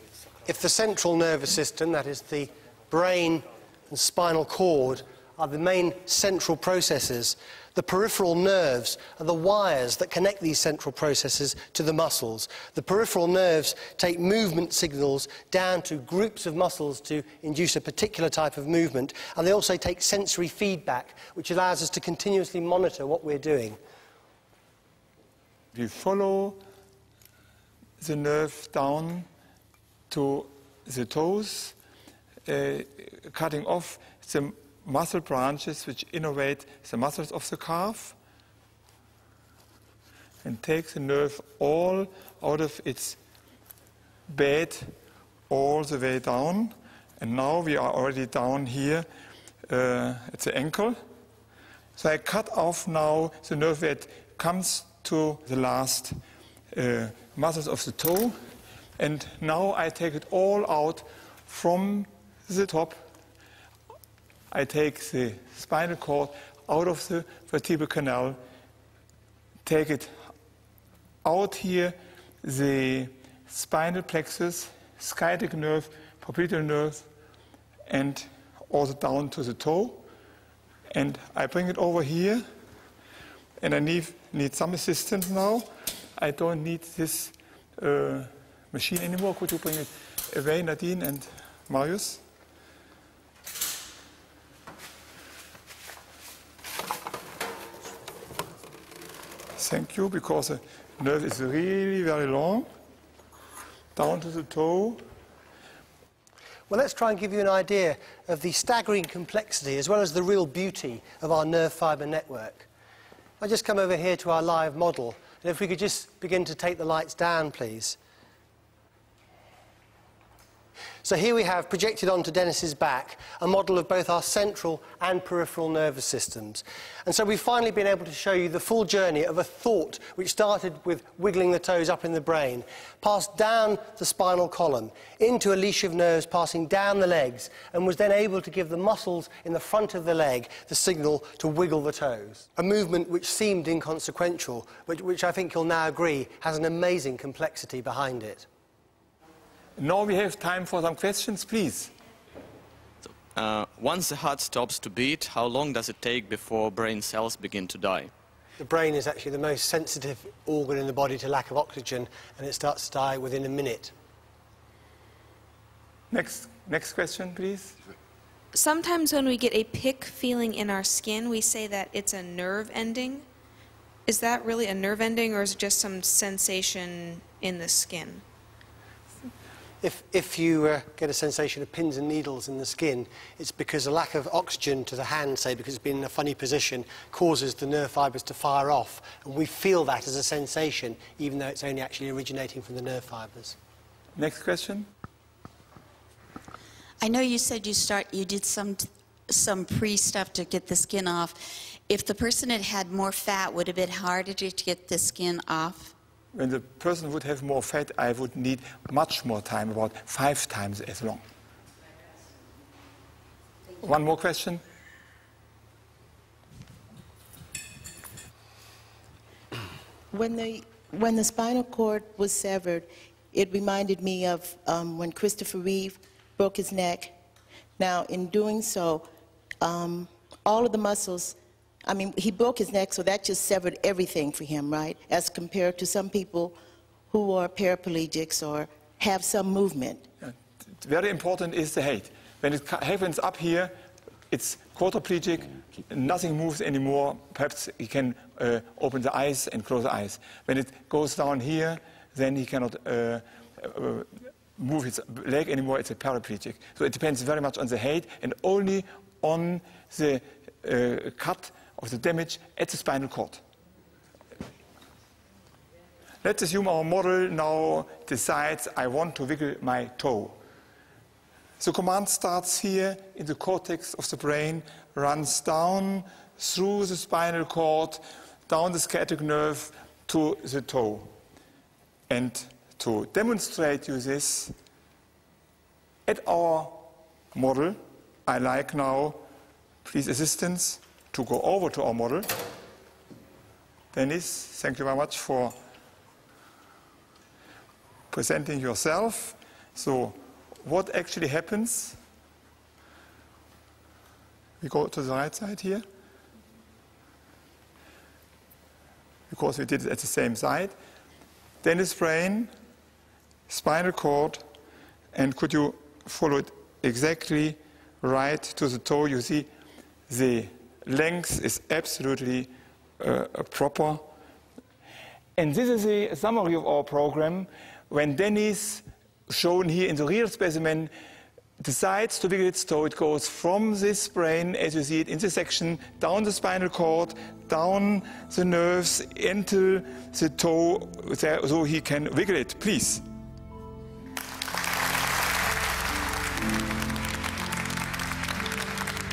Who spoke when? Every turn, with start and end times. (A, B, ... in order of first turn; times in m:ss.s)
0:00.4-0:23.8 A
0:25.7-0:26.6 B
0:28.0-0:29.3 B
0:30.1-0:31.8 B
0:32.4-0:38.2 B
0:40.4-0:43.2 B
0:44.3-0:44.9 B
0:45.5-0:49.1 B
0:49.7-0:51.0 B
0:52.0-0:56.2 B
0:56.7-0:58.4 B
0:59.0-1:03.1 B
1:04.5-1:08.4 B
1:09.6-1:10.1 B
1:11.2-1:17.1 B
1:17.9-1:20.0 B
1:20.9-1:22.4 B
1:23.6-1:32.2 B
1:39.6-1:42.7 B
1:44.0-1:45.0 B
1:46.7-1:52.7 A
1:53.4-1:58.0 A
2:01.0-2:28.4 A
2:29.8-2:31.9 B
2:33.0-2:38.1 C
2:38.6-2:43.9 A
2:46.1-2:47.7 B
2:48.5-2:53.2 D
2:54.1-2:58.2 D
2:59.8-3:13.6 A
3:14.2-3:14.9 B
3:17.0-3:25.9 E
3:26.3-3:31.2 B
3:33.8-3:34.6 B
3:40.1-3:47.2 F
3:47.8-3:49.0 F
3:49.6-3:56.6 F
3:57.1-4:00.0 F
4:00.2-4:03.7 B
4:04.3-4:23.4 B
4:26.2-4:30.4 B
4:31.6-4:41.1 B
4:42.1-4:44.5 B
4:46.0-4:49.2 B
4:49.8-4:52.3 B
4:53.9-4:55.5 B
4:58.1-5:02.0 B
5:04.6-5:05.8 B
5:09.3-5:10.7 B
5:11.6-5:12.5 B
5:13.5-5:14.4 B
5:15.1-5:19.5 B
5:20.1-5:24.0 B
5:25.4-5:30.9 B
5:31.6-5:43.0 B